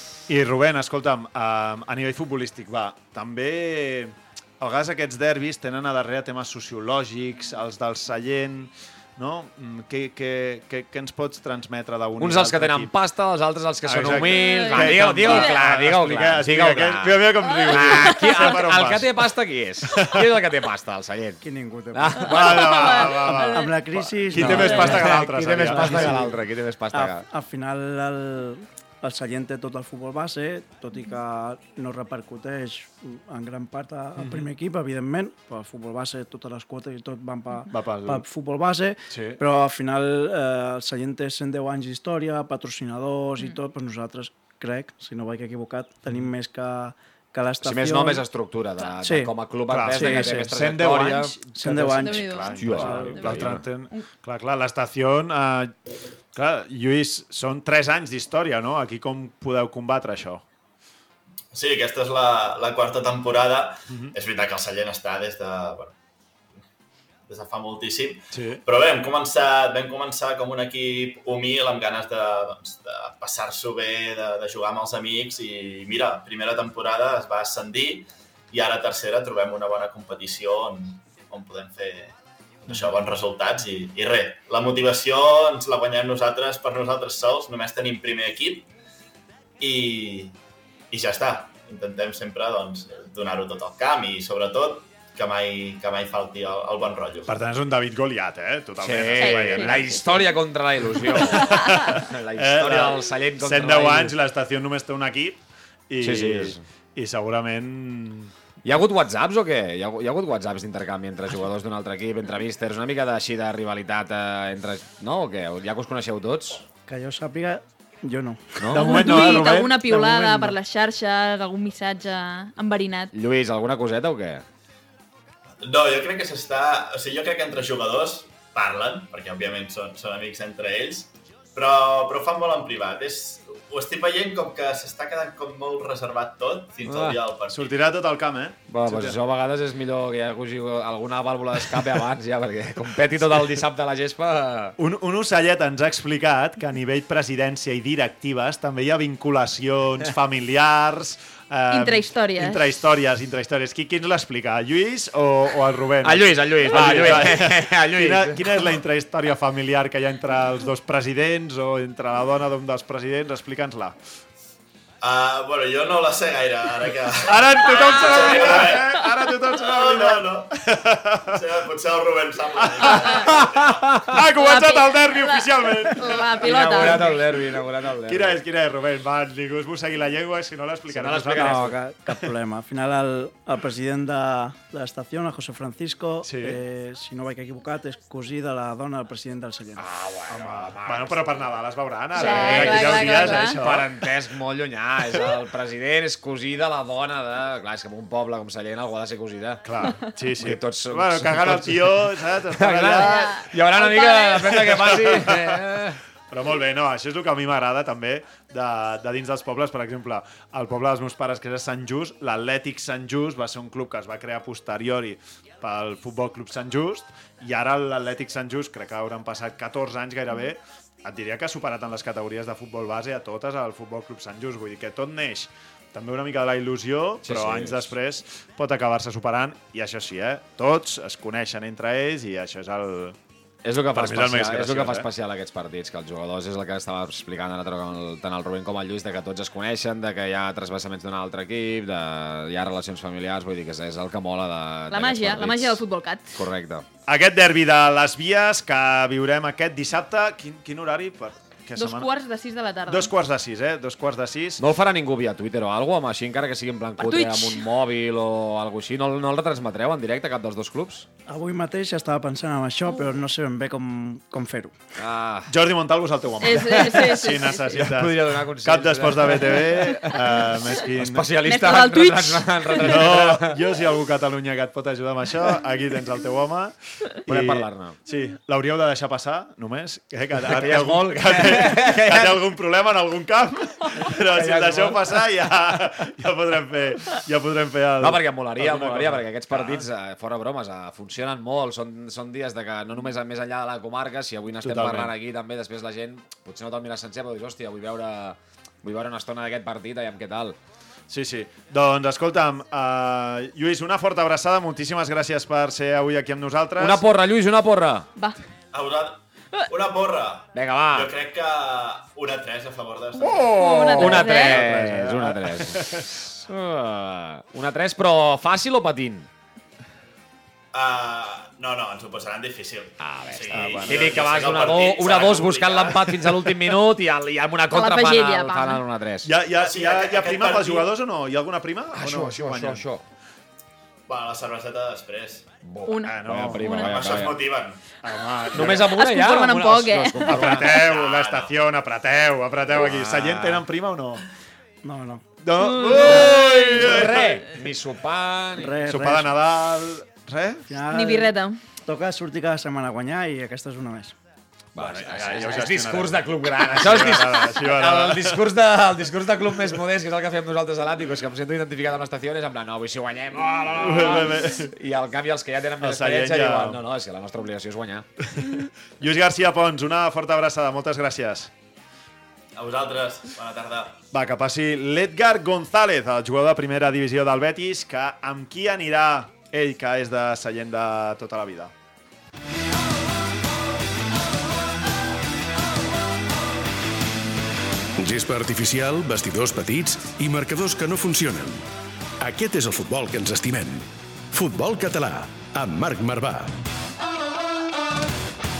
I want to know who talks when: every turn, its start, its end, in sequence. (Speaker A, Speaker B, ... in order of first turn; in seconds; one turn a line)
Speaker A: 0.3-12.9
Speaker B: 12.2-21.4
Speaker A: 13.8-19.1
Speaker C: 14.2-15.6
Speaker C: 17.4-18.4
Speaker A: 19.9-20.2
Speaker D: 21.4-22.3
Speaker B: 21.9-23.4
Speaker A: 22.2-26.3
Speaker C: 22.3-23.7
Speaker D: 23.4-26.3
Speaker B: 24.3-27.2
Speaker D: 26.9-48.2
Speaker A: 34.2-34.5
Speaker A: 37.7-38.2
Speaker A: 39.1-39.4
Speaker B: 47.6-51.3
Speaker D: 49.0-49.3
Speaker A: 49.7-55.7
Speaker D: 49.9-50.5
Speaker D: 51.5-53.3
Speaker C: 51.9-54.0
Speaker B: 52.3-53.7
Speaker A: 56.3-60.4
Speaker E: 61.5-65.9
Speaker E: 67.3-88.7
Speaker A: 68.3-68.6
Speaker E: 89.6-90.4
Speaker E: 90.9-97.3
Speaker A: 97.3-99.8
Speaker B: 98.8-104.2
Speaker C: 99.2-100.2
Speaker A: 101.2-108.3
Speaker B: 106.0-106.6
Speaker B: 108.6-116.6
Speaker D: 116.9-120.5
Speaker B: 118.6-119.1
Speaker A: 118.7-119.8
Speaker C: 118.8-123.1
Speaker B: 123.1-124.4
Speaker E: 125.6-137.7
Speaker B: 136.8-137.2
Speaker A: 137.5-139.1
Speaker B: 138.7-144.7
Speaker A: 144.8-163.9
Speaker C: 151.7-152.6
Speaker B: 156.0-158.7
Speaker E: 165.0-170.5
Speaker A: 167.2-171.4
Speaker C: 167.7-168.2
Speaker E: 171.3-173.7
Speaker A: 172.7-173.4
Speaker B: 173.3-174.2
Speaker A: 174.1-177.2
Speaker C: 174.3-177.1
Speaker B: 176.4-178.4
Speaker A: 178.1-181.7
Speaker B: 180.9-181.7
Speaker D: 181.3-189.8
Speaker A: 186.2-186.6
Speaker B: 189.8-191.4
Speaker A: 190.3-194.0
Speaker C: 192.1-193.6
Speaker B: 192.1-199.6
Speaker A: 199.6-203.2
Speaker B: 200.4-206.0
Speaker C: 203.0-204.6
Speaker A: 204.4-205.6
Speaker A: 206.3-233.2
Speaker B: 227.2-227.9
Speaker B: 233.6-245.8
Speaker A: 233.9-235.1
Speaker C: 244.9-246.4
Speaker B: 246.3-246.9
Speaker A: 247.1-252.1
Speaker C: 251.8-253.1
Speaker A: 252.9-254.6
Speaker B: 254.6-261.1
Speaker C: 257.0-257.6
Speaker D: 261.3-264.8
Speaker B: 265.0-265.5
Speaker A: 265.5-271.4
Speaker C: 266.4-267.9
Speaker B: 266.5-273.6
Speaker C: 271.4-273.0
Speaker A: 272.8-276.7
Speaker A: 277.2-289.8
Speaker B: 277.3-278.0
Speaker B: 280.5-282.4
Speaker B: 284.1-285.2
Speaker B: 288.0-300.6
Speaker A: 294.6-295.1
Speaker A: 301.1-307.0
Speaker B: 306.8-308.1
Speaker E: 308.7-313.5
Speaker B: 310.5-311.1
Speaker B: 313.2-319.3
Speaker C: 313.5-314.7
Speaker A: 313.9-316.1
Speaker E: 320.7-326.5
Speaker B: 323.0-329.3
Speaker A: 323.5-324.3
Speaker C: 327.7-328.8
Speaker A: 329.2-332.8
Speaker E: 329.6-330.9
Speaker B: 331.9-333.0
Speaker E: 334.1-335.5
Speaker B: 335.6-337.4
Speaker C: 335.9-336.9
Speaker A: 336.1-337.3
Speaker E: 336.6-337.8
Speaker A: 338.0-344.2
Speaker B: 338.5-340.9
Speaker C: 338.7-340.6
Speaker E: 340.6-341.5
Speaker B: 342.7-343.6
Speaker D: 344.8-345.2
Speaker A: 345.4-347.5
Speaker C: 345.6-346.9
Speaker B: 345.7-348.8
Speaker D: 348.6-349.4
Speaker A: 348.8-350.7
Speaker D: 350.7-351.3
Speaker C: 350.9-351.6
Speaker D: 351.8-354.1
Speaker B: 354.7-368.1
Speaker A: 354.8-358.4
Speaker A: 363.7-364.7
Speaker A: 365.8-366.8
Speaker A: 368.3-371.5
Speaker E: 372.5-374.0
Speaker A: 374.1-381.7
Speaker F: 388.0-391.6
Speaker F: 392.2-396.6